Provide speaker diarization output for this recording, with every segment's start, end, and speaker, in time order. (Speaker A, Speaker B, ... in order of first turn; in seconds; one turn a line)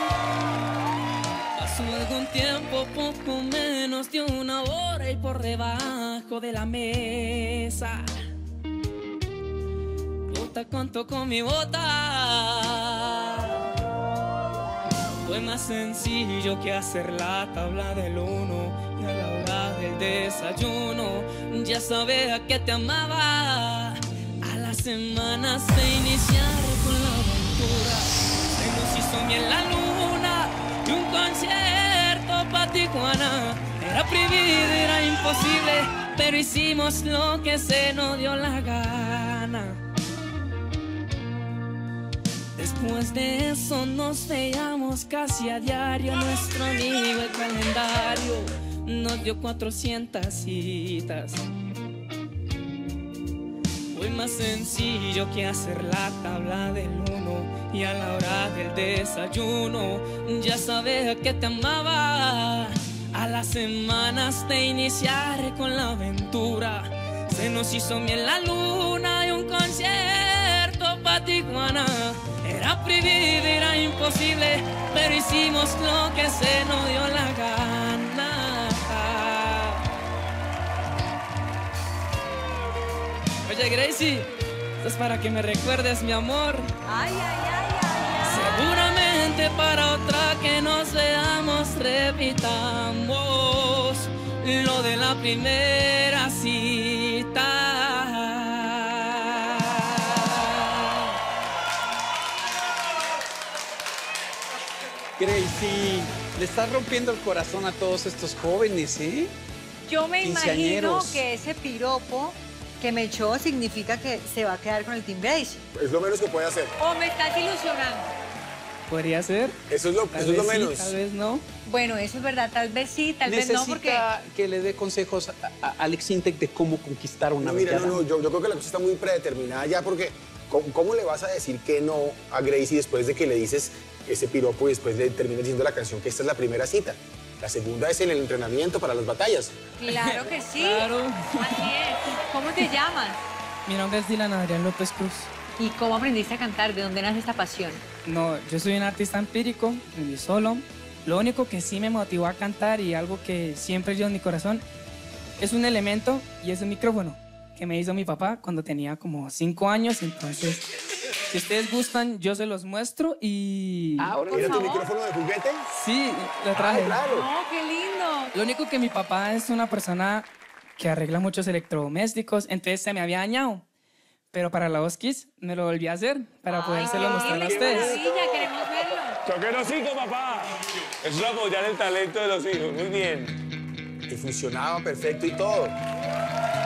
Speaker A: 1.5-8.1
Speaker A: 10.3-13.6
Speaker A: 15.2-39.8
Speaker A: 42.5-51.4
Speaker A: 53.9-79.8
Speaker A: 83.5-86.7
Speaker B: 86.8-88.7
Speaker A: 88.2-100.9
Speaker C: 105.2-109.3
Speaker B: 109.8-115.6
Speaker C: 110.2-111.2
Speaker D: 115.7-116.8
Speaker B: 116.8-118.1
Speaker A: 118.9-119.6
Speaker D: 119.7-120.9
Speaker A: 120.1-121.4
Speaker B: 121.7-124.0
Speaker C: 123.2-128.0
Speaker D: 127.4-139.5
Speaker B: 139.8-143.2
Speaker A: 139.9-141.7
Speaker A: 143.7-145.3
Speaker B: 145.6-147.8
Speaker A: 148.0-154.6
Speaker A: 155.4-160.7
Speaker A: 161.3-164.2
Speaker C: 164.0-164.8
Speaker B: 164.2-164.9
Speaker D: 164.3-165.7
Speaker A: 165.7-167.0
Speaker D: 166.5-167.3
Speaker B: 167.0-168.3
Speaker A: 168.3-173.7
Speaker A: 174.3-178.0
Speaker B: 176.5-179.2
Speaker E: 177.4-177.7
Speaker E: 179.2-183.4
Speaker D: 184.1-185.8